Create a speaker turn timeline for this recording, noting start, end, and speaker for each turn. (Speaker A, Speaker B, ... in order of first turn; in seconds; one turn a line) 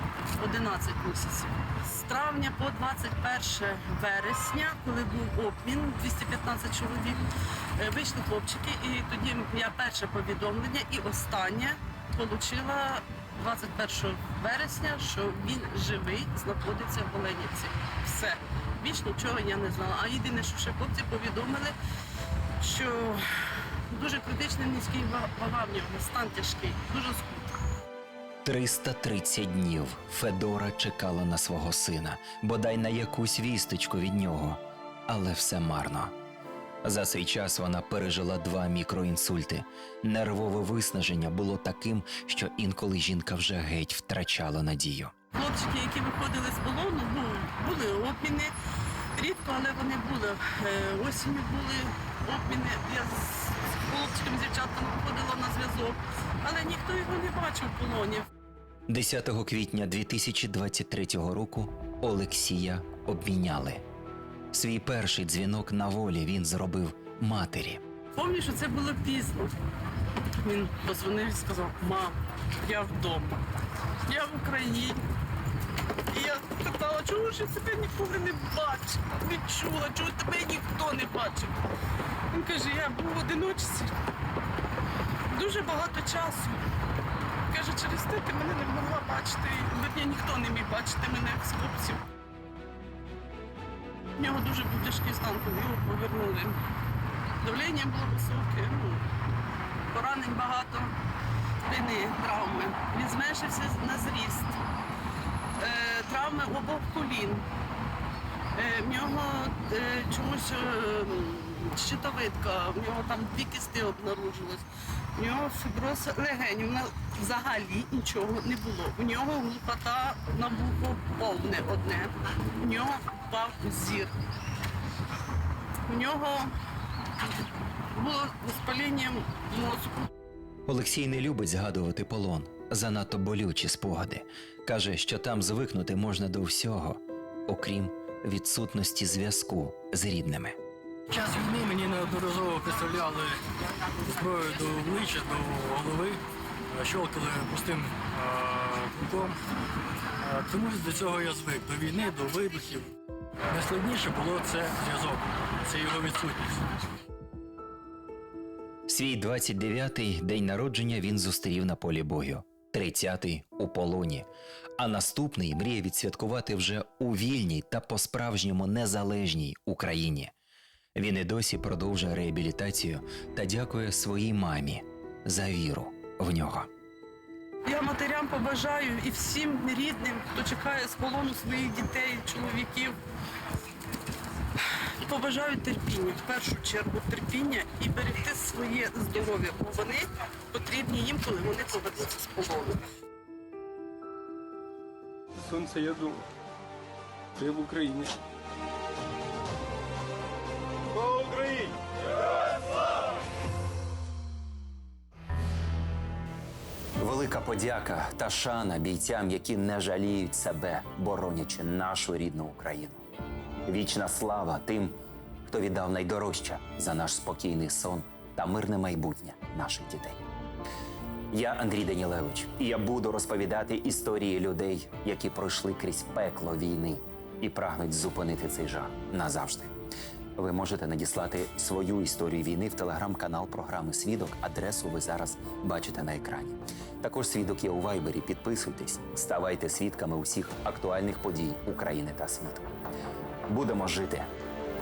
Speaker A: 0.4-7.2
Speaker A: 7.8-21.8
Speaker A: 22.6-23.2
Speaker A: 23.9-27.6
Speaker B: 28.4-36.1
Speaker B: 36.9-45.1
Speaker A: 45.3-48.5
Speaker A: 49.1-58.3
Speaker B: 58.9-63.8
Speaker B: 64.5-67.8
Speaker A: 68.2-69.5
Speaker A: 70.4-73.4
Speaker A: 74.0-75.0
Speaker A: 76.1-81.6
Speaker A: 82.3-83.9
Speaker A: 85.3-86.6
Speaker A: 87.5-92.0
Speaker A: 94.2-96.6
Speaker A: 97.4-99.1
Speaker A: 99.9-100.9
Speaker A: 101.7-104.6
Speaker A: 105.6-107.5
Speaker A: 108.5-124.1
Speaker A: 125.9-126.5
Speaker A: 127.9-130.1
Speaker B: 130.7-140.6
Speaker C: 141.1-146.2
Speaker C: 146.7-149.4
Speaker C: 150.2-152.9
Speaker C: 153.5-156.6
Speaker B: 158.9-164.3
Speaker B: 164.8-170.3
Speaker B: 171.0-176.7
Speaker A: 177.7-183.0
Speaker A: 185.0-192.8
Speaker D: 195.4-196.2
Speaker D: 197.4-198.2
Speaker D: 201.1-201.7
Speaker E: 207.0-213.0
Speaker E: 213.7-220.2
Speaker E: 221.3-229.7
Speaker E: 230.4-242.7
Speaker E: 243.5-244.3